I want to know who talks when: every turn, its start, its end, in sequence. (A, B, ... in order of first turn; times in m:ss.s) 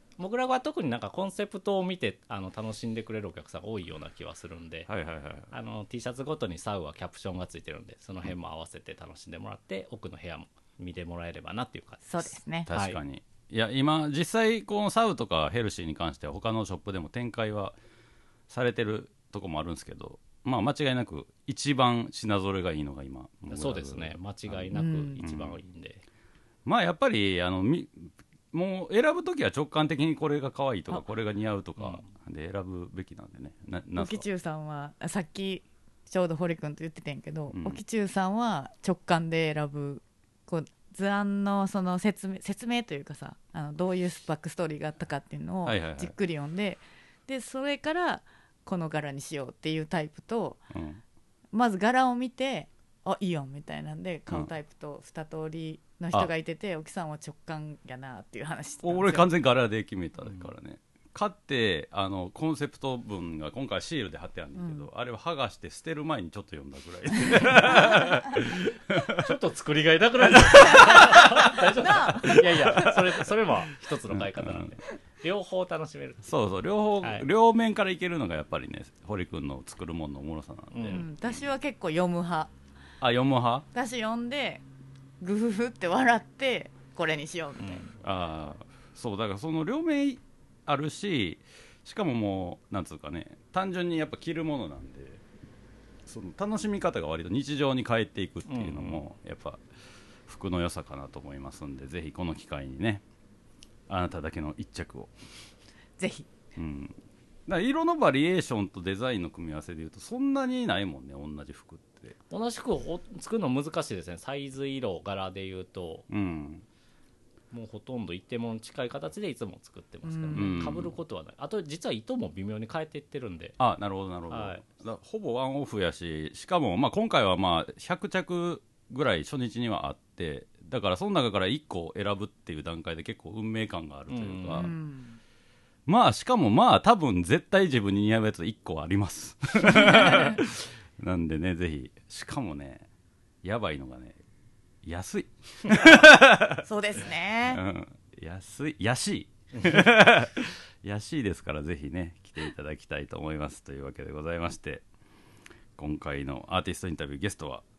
0:00.2-0:04.9 A
0:04.9-0:05.5 B
0:05.5-0:12.1 A
0:12.1-0:12.7 C
0:12.7-0:17.8 B
0:12.7-0:13.0 A
0:18.5-0:24.7 B
0:23.5-0:26.0 A
0:24.7-0:25.2 C
0:25.2-0:25.6 B
0:26.6-0:34.2 B
0:31.8-0:32.1 A
0:34.0-0:50.6 C
0:37.5-0:37.8 B
0:45.6-0:46.1 B
0:50.7-0:51.0 B
0:51.5-0:59.3 C
0:58.8-1:09.3 B
1:04.6-1:04.9 C
1:09.1-1:16.3 A
1:10.4-1:14.8 B
1:11.8-1:12.7 C
1:16.2-1:21.1 B
1:17.0-1:17.3 A
1:20.7-1:21.0 A
1:20.9-1:22.5 C
1:23.0-1:23.7 B
1:23.7-1:24.6 C
1:25.2-1:27.9 C
1:27.6-1:28.0 A
1:28.0-1:35.2 B
1:36.1-1:39.6 B
1:38.5-1:39.0 A
1:40.3-1:43.0 B
1:43.9-1:45.1 B
1:46.0-1:46.3 C
1:46.6-1:52.2 B
1:52.3-1:56.1 A
1:56.1-1:56.6 B
1:57.5-2:03.6 A
2:00.0-2:00.7 C
2:00.3-2:00.9 B
2:03.6-2:14.7 B
2:04.3-2:04.6 A
2:14.1-2:14.7 A
2:14.5-2:15.2 C
2:15.9-2:22.9 B
2:19.7-2:20.4 C
2:23.4-2:24.2 B
2:24.8-2:26.7 B
2:26.6-2:27.6 C
2:27.5-2:34.8 B
2:29.5-2:29.8 A
2:35.8-2:37.6 B